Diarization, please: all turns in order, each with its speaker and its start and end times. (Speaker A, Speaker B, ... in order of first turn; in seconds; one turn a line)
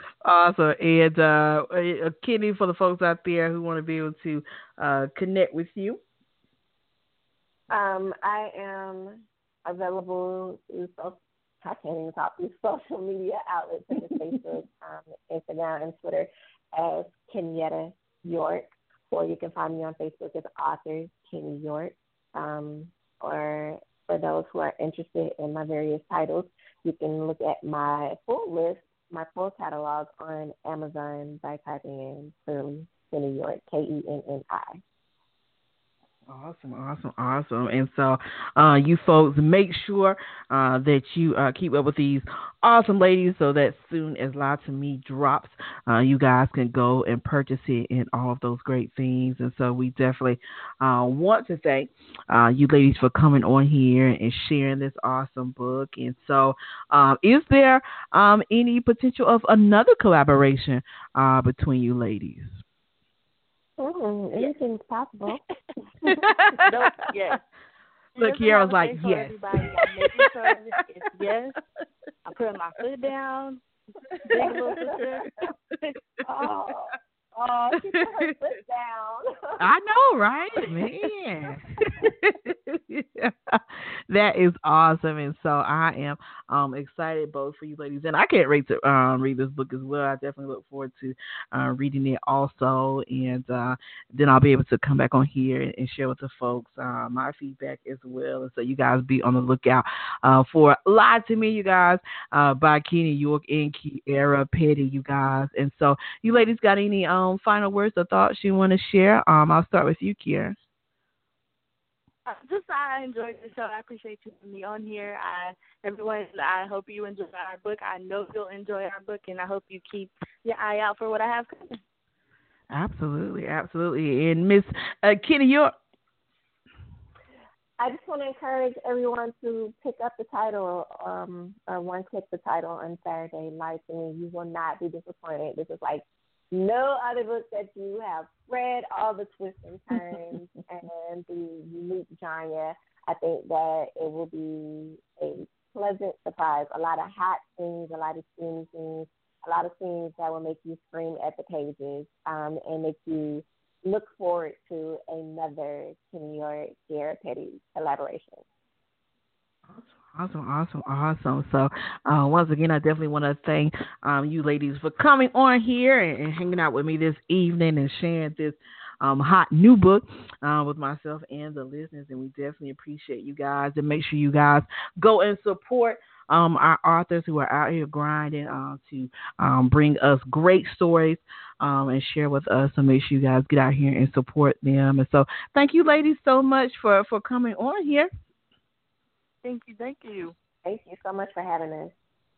Speaker A: 0.2-6.0
Speaker B: 7.7-34.8
Speaker A: 36.3-62.6
Speaker B: 63.8-65.4
Speaker B: 66.0-66.3
Speaker A: 66.1-66.6
Speaker C: 66.6-67.4
Speaker C: 68.2-71.6
Speaker A: 68.2-70.3
Speaker C: 72.3-73.6
Speaker A: 74.2-74.5
Speaker C: 74.3-75.9
Speaker B: 74.3-75.1
Speaker B: 76.2-79.6
Speaker A: 77.8-78.4
Speaker A: 79.6-110.5
Speaker C: 112.3-121.8
Speaker A: 122.7-125.7
Speaker B: 127.8-158.4
Speaker A: 159.7-188.1
Speaker C: 189.4-190.3
Speaker B: 190.6-191.9